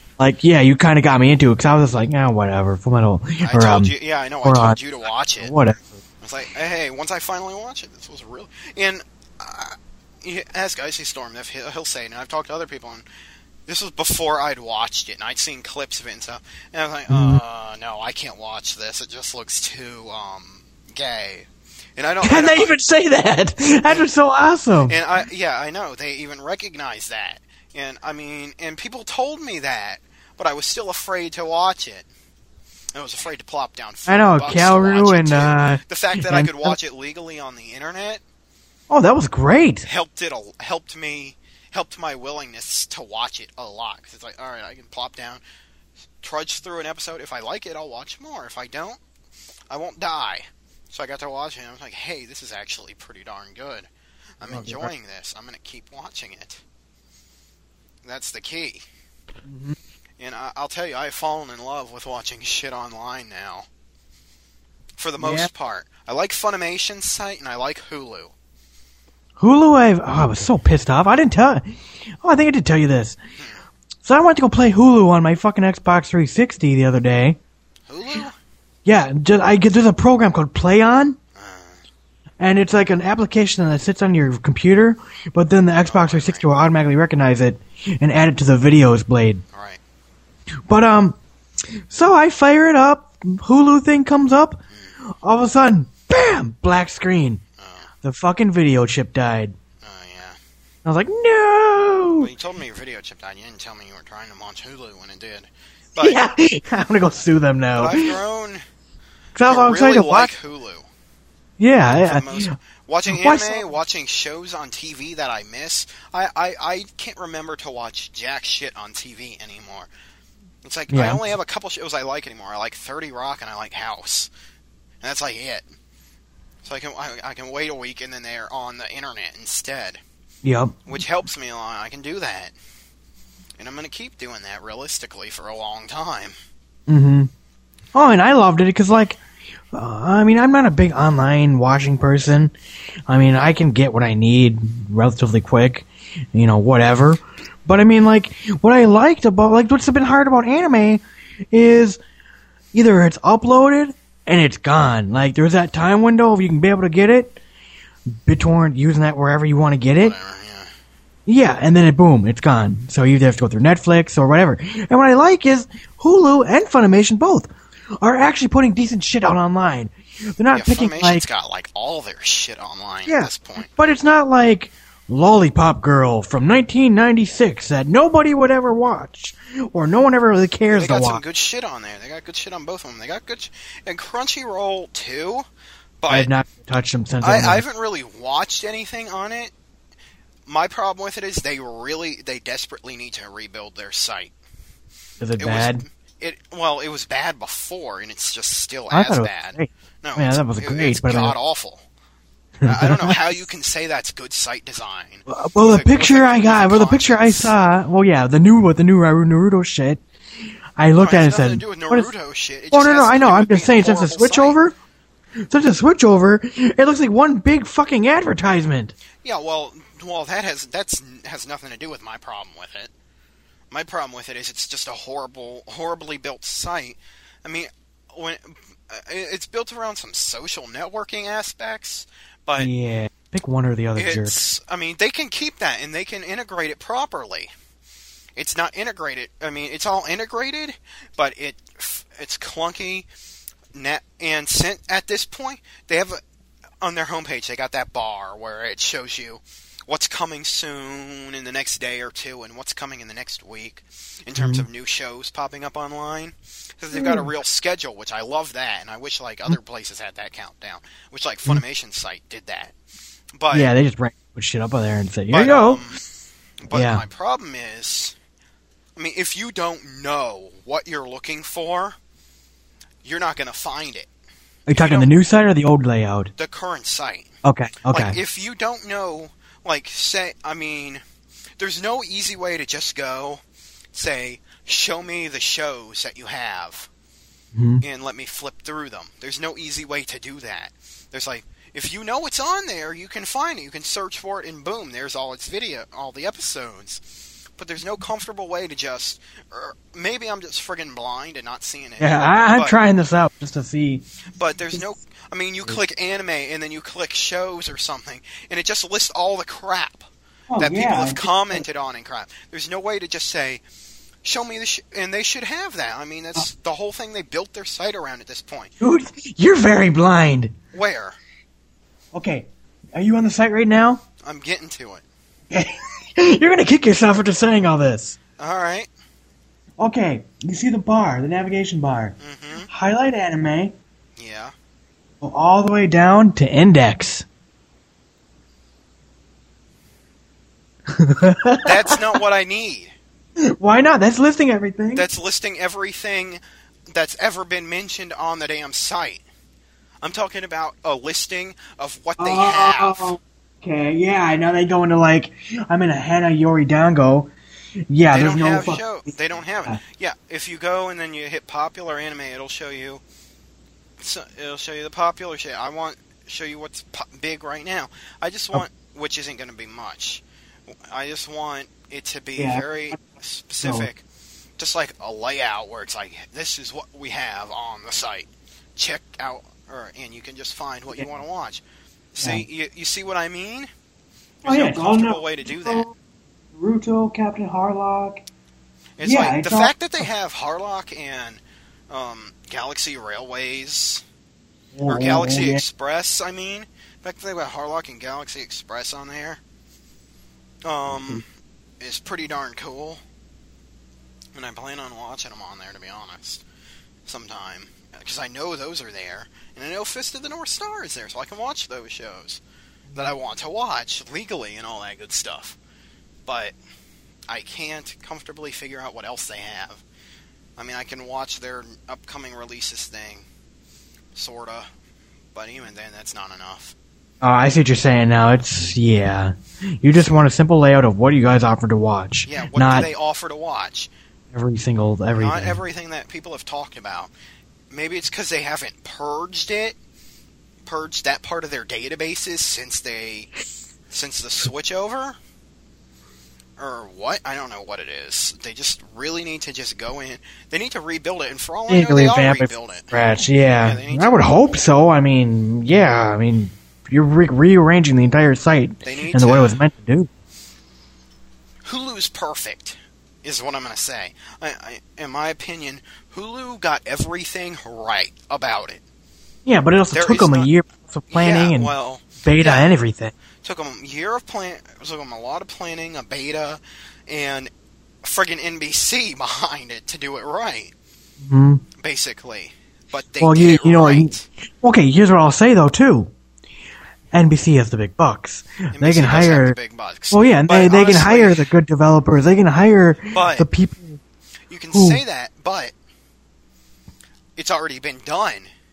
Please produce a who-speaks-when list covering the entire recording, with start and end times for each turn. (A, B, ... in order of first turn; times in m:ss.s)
0:00.2-0:03.9 A
0:03.4-0:05.5 B
0:04.4-0:04.8 A
0:05.4-0:06.0 A
0:06.2-0:13.0 B
0:13.7-0:22.7 B
0:17.1-0:17.4 A
0:22.2-0:25.0 A
0:24.8-0:32.1 B
0:32.9-0:38.2 B
0:34.1-0:36.8 A
0:38.9-0:39.9 A
0:39.8-0:45.4 B
0:46.2-0:49.0 B
0:49.7-0:53.9 B
0:54.4-0:56.6 B
0:54.4-0:54.9 A
0:58.0-0:58.8 B
0:59.4-0:59.8 A
1:00.2-1:03.6 B
1:05.0-1:08.3 B
1:05.2-1:05.5 A
1:09.4-1:11.7 A
1:12.2-1:13.2 A
1:14.0-1:17.4 A
1:17.9-1:18.3 B
1:18.8-1:21.2 A
1:21.3-1:21.8 B
1:22.4-1:29.4 A
1:25.8-1:26.4 B
1:29.5-1:29.8 B
1:30.7-1:31.2 A
1:31.9-1:34.6 A
1:35.1-1:37.4 A
1:37.6-1:37.9 B
1:38.0-1:39.5 A
1:39.8-1:40.4 B
1:40.8-1:42.3 A
1:42.2-1:46.2 B
1:46.0-1:48.2 A
1:47.8-1:48.6 B
1:49.3-1:50.3 A
1:49.4-1:50.9 B
1:51.6-1:52.5 A
1:51.9-1:59.9 B
1:53.0-1:53.7 A
2:00.6-2:04.3 B
2:00.9-2:01.3 A
2:05.0-2:05.6 B
2:06.6-2:10.0 B
2:10.4-2:10.8 A
2:10.9-2:12.5 B
2:13.6-2:16.4 B
2:16.9-2:17.3 A
2:17.9-2:19.2 A
2:19.7-2:22.5 A
2:23.1-2:32.0 A
2:32.7-2:37.4 A
2:38.1-2:40.2 A
2:40.0-2:40.7 B
2:41.3-2:51.2 A
2:50.5-2:53.7 B
2:53.0-3:01.2 A
3:00.7-3:05.4 B
3:06.0-3:06.3 B
3:06.1-3:07.6 A
3:07.2-3:09.5 B
3:10.5-3:14.3 B
3:15.2-3:15.8 A
3:15.4-3:21.8 B
3:18.9-3:21.4 A
3:22.6-3:23.2 A
3:22.6-3:27.5 B
3:25.3-3:30.0 A
3:30.8-3:32.1 A
3:31.0-3:34.6 B
3:32.7-3:34.8 A
3:35.5-3:38.9 A
3:39.2-3:42.9 B
3:43.7-3:52.7 B
3:52.6-3:54.4 A
3:54.0-3:57.5 B
3:58.4-4:03.1 B
4:03.7-4:06.2 B
4:06.8-4:22.7 B
4:14.4-4:14.7 A
4:16.9-4:17.3 A
4:23.4-4:23.7 B
4:23.5-4:25.8 A
4:25.3-4:26.0 B
4:26.6-4:28.2 B
4:26.7-4:27.0 A
4:29.0-4:32.0 B
4:33.0-4:34.1 B
4:34.7-4:36.3 A
4:34.7-4:35.1 B
4:36.4-4:37.3 B
4:37.4-4:38.2 A
4:37.9-4:41.0 B
4:41.6-4:43.4 B
4:43.9-4:46.9 B
4:47.5-4:47.8 A
4:47.8-4:57.0 B
4:57.6-5:02.8 B
5:02.0-5:04.0 A
5:04.4-5:10.1 B
5:10.5-5:11.6 A
5:10.6-5:13.6 B
5:14.2-5:18.7 B
5:18.8-5:20.6 A
5:20.7-5:21.2 B
5:22.1-5:24.0 A
5:24.2-5:25.0 B
5:25.5-5:28.2 A
5:28.4-5:28.9 B
5:29.8-5:32.1 A
5:32.2-5:32.7 B
5:32.7-5:33.7 A
5:34.2-5:34.5 B
5:35.2-5:37.2 A
5:40.9-5:42.0 A
5:41.6-5:42.9 B
5:43.4-5:45.1 A
5:44.9-5:49.2 B
5:50.0-5:53.1 B
5:52.2-5:57.3 A
5:57.9-5:58.8 A
5:58.1-6:03.0 B
6:04.0-6:10.2 B
6:10.9-6:14.0 B
6:12.4-6:13.0 A
6:13.6-6:13.9 A
6:14.6-6:21.6 B
6:22.1-6:23.7 B
6:24.4-6:25.9 B
6:24.4-6:25.9 A
6:26.5-6:28.2 A
6:29.0-6:34.0 B
6:29.0-6:30.0 A
6:34.7-6:35.6 A
6:34.9-6:39.4 B
6:40.6-6:41.2 B
6:41.8-6:43.0 B
6:44.3-6:46.4 B
6:47.0-6:52.4 B
6:52.9-6:55.6 B
6:56.3-6:56.6 B
6:57.3-6:59.8 B
7:00.6-7:03.2 B
7:04.1-7:04.7 B
7:05.3-7:06.7 B
7:07.2-7:12.9 A
7:12.2-7:13.9 B
7:14.3-7:15.6 A
7:15.2-7:17.1 B
7:17.7-7:19.8 B
7:20.6-7:23.3 B
7:23.9-7:25.2 B
7:26.6-7:33.0 B
7:31.7-7:40.1 A
7:33.6-7:34.5 B
7:38.8-7:39.6 B
7:41.6-7:48.8 B
7:49.4-7:51.7 A
7:49.9-7:50.5 B
7:51.1-7:52.7 B
7:52.2-7:53.1 A
7:53.4-7:57.5 B
7:58.0-8:00.7 B
8:01.2-8:01.6 A
8:01.8-8:04.2 B
8:03.2-8:06.1 A
8:07.1-8:09.6 A
8:08.7-8:11.5 B
8:10.1-8:14.0 A
8:13.1-8:13.5 B
8:14.5-8:15.7 B
8:14.7-8:15.0 A
8:17.4-8:18.5 B